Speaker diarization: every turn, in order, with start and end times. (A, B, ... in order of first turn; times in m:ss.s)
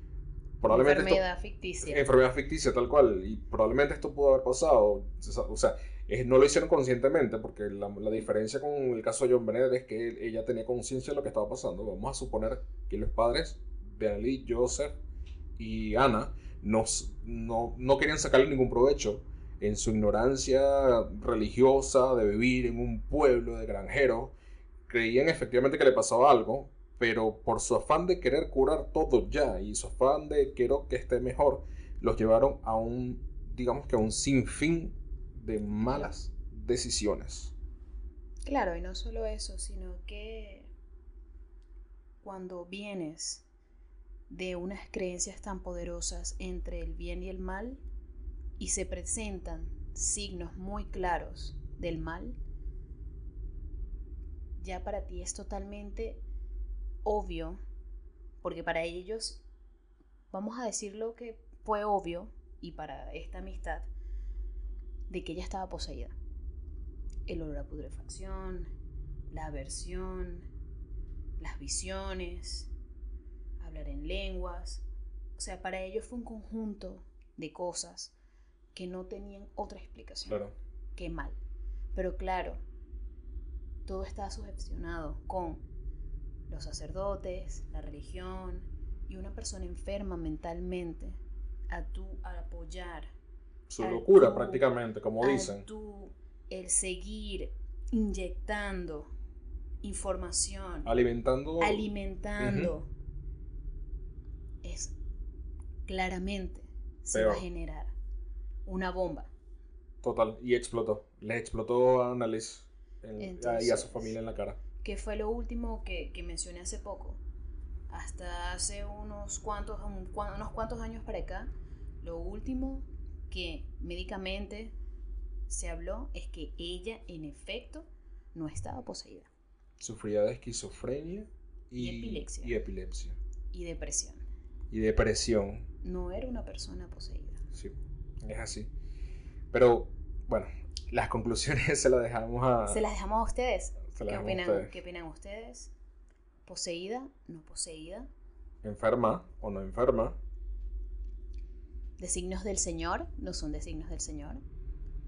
0:00.6-0:01.2 A
0:00.7-0:02.0 B
0:01.8-0:15.0 A
0:15.6-0:24.4 A
0:24.9-0:37.5 A
0:35.9-0:36.1 B
0:38.4-0:40.7 B
0:42.2-0:43.5 B
0:44.3-0:47.8 B
0:48.6-0:52.4 B
0:54.6-0:56.2 B
0:57.0-0:57.6 B
0:58.4-0:59.4 B
1:00.3-1:03.9 B
1:05.1-1:06.2 B
1:07.3-1:08.7 B
1:09.3-1:10.5 B
1:11.4-1:12.7 B
1:13.6-1:14.8 B
1:15.4-1:18.1 B
1:18.7-1:20.4 B
1:20.3-1:20.6 A
1:21.0-1:21.4 B
1:22.0-1:22.6 B
1:23.9-1:25.6 B
1:26.5-1:33.1 B
1:33.7-1:35.6 A
1:33.8-1:34.6 B
1:35.2-1:39.1 B
1:39.8-1:40.9 B
1:40.8-1:41.9 A
1:41.6-1:42.9 B
1:42.4-1:42.7 A
1:44.6-1:45.0 B
1:45.9-1:48.0 B
1:47.1-1:47.4 A
1:48.7-1:49.3 B
1:50.0-1:54.6 A
1:53.2-1:54.2 B
1:54.8-1:57.2 B
1:57.9-2:04.8 B
2:05.5-2:09.3 B
2:09.8-2:13.2 A
2:11.8-2:12.6 B
2:13.5-2:14.2 B
2:14.7-2:15.7 A
2:15.8-2:17.4 B
2:17.5-2:18.7 A
2:19.5-2:22.8 A
2:22.7-2:25.7 B
2:23.9-2:24.8 A
2:26.5-2:28.1 B
2:28.6-2:30.2 A
2:32.0-2:34.4 B